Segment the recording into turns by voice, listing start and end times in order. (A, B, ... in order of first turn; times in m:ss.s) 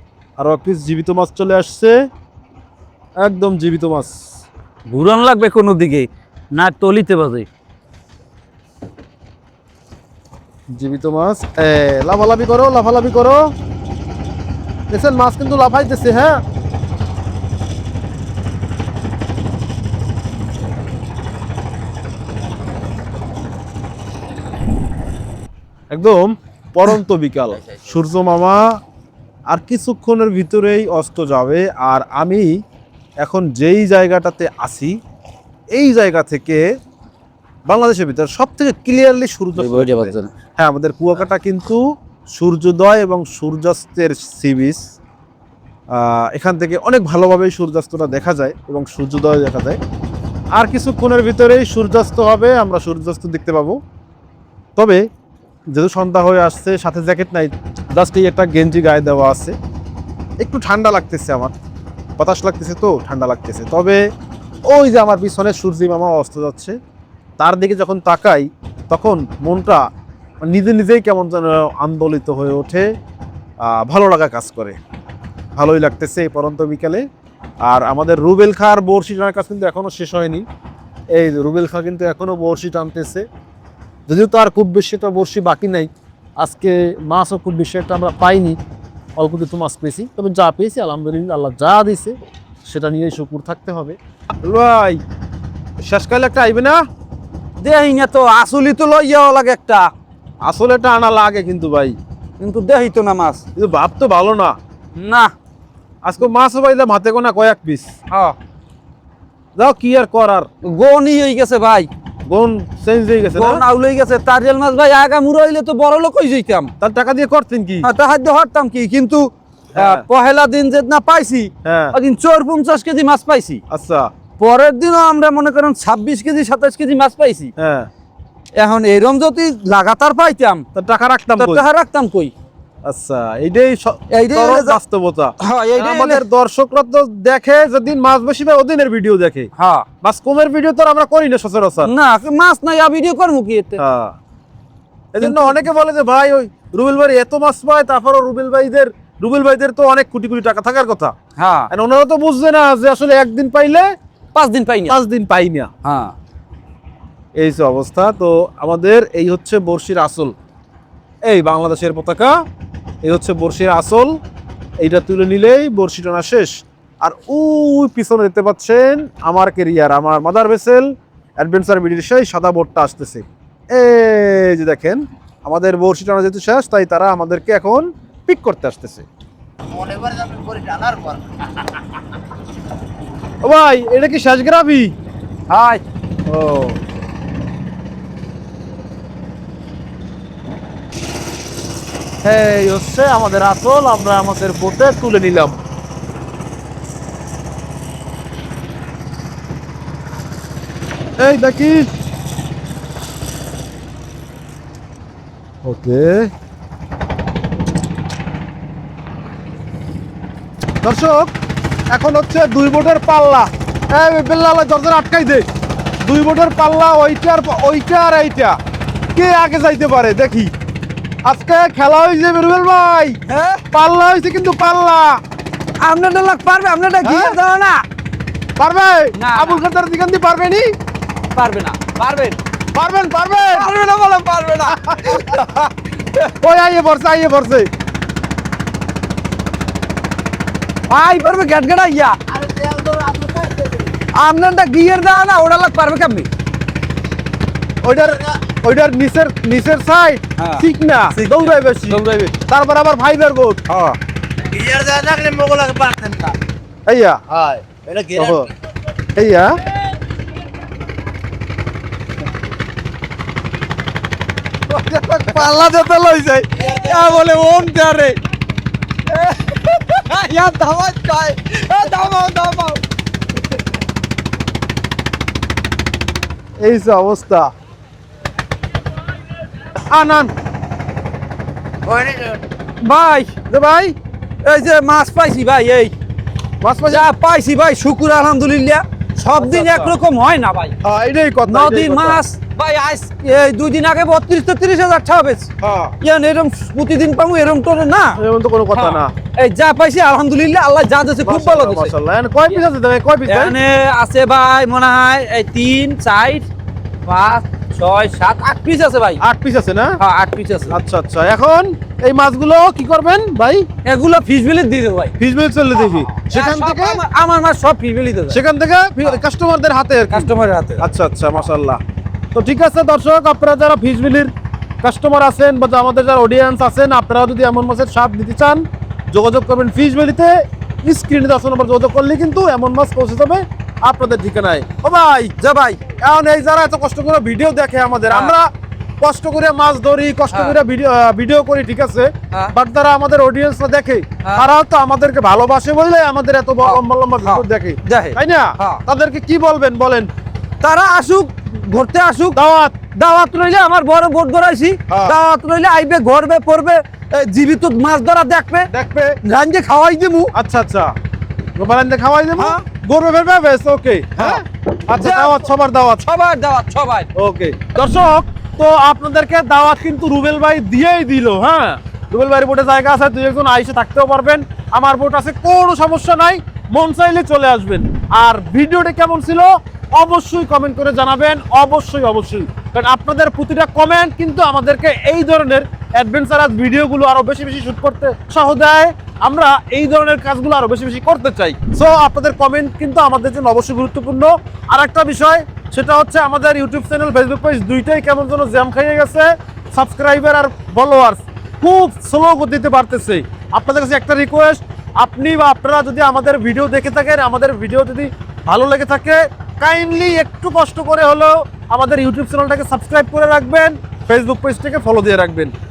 0:00.4-0:02.0 A
0:03.2-0:04.1 A
0:04.9-0:07.5 B
0:10.8-0:13.5 A
0:14.9-0:16.4 A
0:25.9-0:28.7 A
0:29.5-0:32.5 A
0:33.2-0:34.9 A
0:35.7-0:36.6 A
0:37.7-0:44.8 A
0:39.6-0:40.3 B
0:45.9-0:49.8 A
0:50.5-0:53.8 A
0:54.8-0:55.0 A
0:55.7-0:59.5 A
1:00.4-1:01.5 A
1:02.2-1:04.0 A
1:04.7-1:06.7 A
1:07.4-1:09.8 A
1:10.4-1:12.9 A
1:13.6-1:14.8 A
1:15.6-1:17.0 A
1:17.6-1:20.4 A
1:21.1-1:23.2 A
1:24.1-1:28.6 A
1:29.2-1:32.2 A
1:32.7-1:35.0 A
1:35.8-1:36.8 A
1:37.6-1:39.9 B
1:40.4-1:42.0 A
1:42.4-1:43.4 B
1:43.6-1:44.5 A
1:45.0-1:45.3 B
1:46.0-1:47.9 A
1:49.6-1:50.5 A
1:50.7-1:51.9 B
1:52.3-1:53.6 A
1:53.3-1:56.7 B
1:56.8-1:57.9 A
1:57.8-2:03.6 B
1:59.7-2:00.0 A
2:01.6-2:02.0 A
2:03.7-2:04.1 A
2:04.4-2:07.5 B
2:07.6-2:07.9 A
2:08.6-2:10.6 B
2:10.7-2:11.6 A
2:11.4-2:12.3 B
2:12.8-2:19.5 A
2:14.1-2:14.8 B
2:15.4-2:16.2 B
2:19.6-2:19.8 B
2:20.0-2:21.9 A
2:21.8-2:23.8 B
2:23.8-2:24.2 A
2:25.1-2:31.1 A
2:25.2-2:25.6 B
2:31.4-2:31.7 B
2:31.7-2:33.9 A
2:34.3-2:35.0 B
2:34.9-2:35.7 A
2:35.8-2:36.1 B
2:37.4-2:40.3 A
2:41.2-2:42.4 A
2:43.0-2:44.2 A
2:44.8-2:59.1 A
2:59.7-3:01.2 C
3:03.4-3:04.9 A
3:05.5-3:05.8 B
3:06.3-3:06.8 A
3:12.2-3:15.6 A
3:21.2-3:21.9 A
3:25.6-3:26.3 A
3:30.8-3:31.3 A
3:31.9-3:35.4 A
3:36.0-3:38.6 A
3:39.1-3:40.5 A
3:41.2-3:43.2 A
3:43.3-3:43.6 B
3:43.7-3:45.2 A
3:45.8-3:47.8 B
3:47.0-3:47.4 A
3:48.6-3:50.7 A
3:49.2-3:49.6 B
3:51.3-3:52.4 B
3:52.7-3:53.7 A
3:53.5-3:55.7 B
3:54.7-3:55.4 A
3:56.3-3:57.7 A
4:00.9-4:02.2 B
4:02.3-4:03.9 C
4:04.1-4:06.3 B
4:07.8-4:13.6 A
4:10.4-4:12.3 B
4:13.7-4:14.0 B
4:14.5-4:16.3 C
4:16.9-4:17.6 A
4:17.5-4:18.4 C
4:18.1-4:18.5 A
4:19.1-4:19.6 A
4:24.7-4:28.1 A
4:25.2-4:25.5 B
4:26.6-4:27.6 B
4:29.1-4:32.8 B
4:36.6-4:37.5 A
4:39.7-4:40.3 A
4:41.9-4:43.3 B
4:43.5-4:43.9 A
4:44.4-4:45.9 B
4:46.6-4:47.1 A
4:46.9-4:50.7 B
4:49.4-4:50.0 A
4:50.8-4:52.2 A
4:51.4-4:58.2 B
4:55.6-4:56.0 A
4:58.2-4:59.1 A
4:58.7-5:01.9 B
5:01.2-5:03.6 A
5:03.2-5:06.5 B
5:07.0-5:09.2 B
5:09.2-5:10.0 A
5:10.0-5:10.8 B
5:10.7-5:13.6 A
5:13.8-5:15.1 B
5:15.2-5:17.0 A
5:15.9-5:18.4 B
5:18.3-5:21.8 A
5:20.1-5:20.9 B
5:22.3-5:24.3 A
5:24.8-5:35.3 A
5:35.4-5:35.8 B
5:36.0-5:38.5 A
5:39.0-5:50.1 A
5:40.3-5:40.6 B
5:44.2-5:44.5 B
5:46.6-5:48.8 B
5:50.6-5:52.4 B
5:52.3-5:52.7 A
5:52.9-5:58.7 B
5:54.9-5:55.2 A
5:58.7-5:59.2 A
5:59.2-6:00.3 B
6:00.3-6:00.9 A
6:01.6-6:06.1 A
6:02.4-6:02.6 B
6:04.2-6:05.5 B
6:06.0-6:07.1 B
6:07.1-6:55.5 A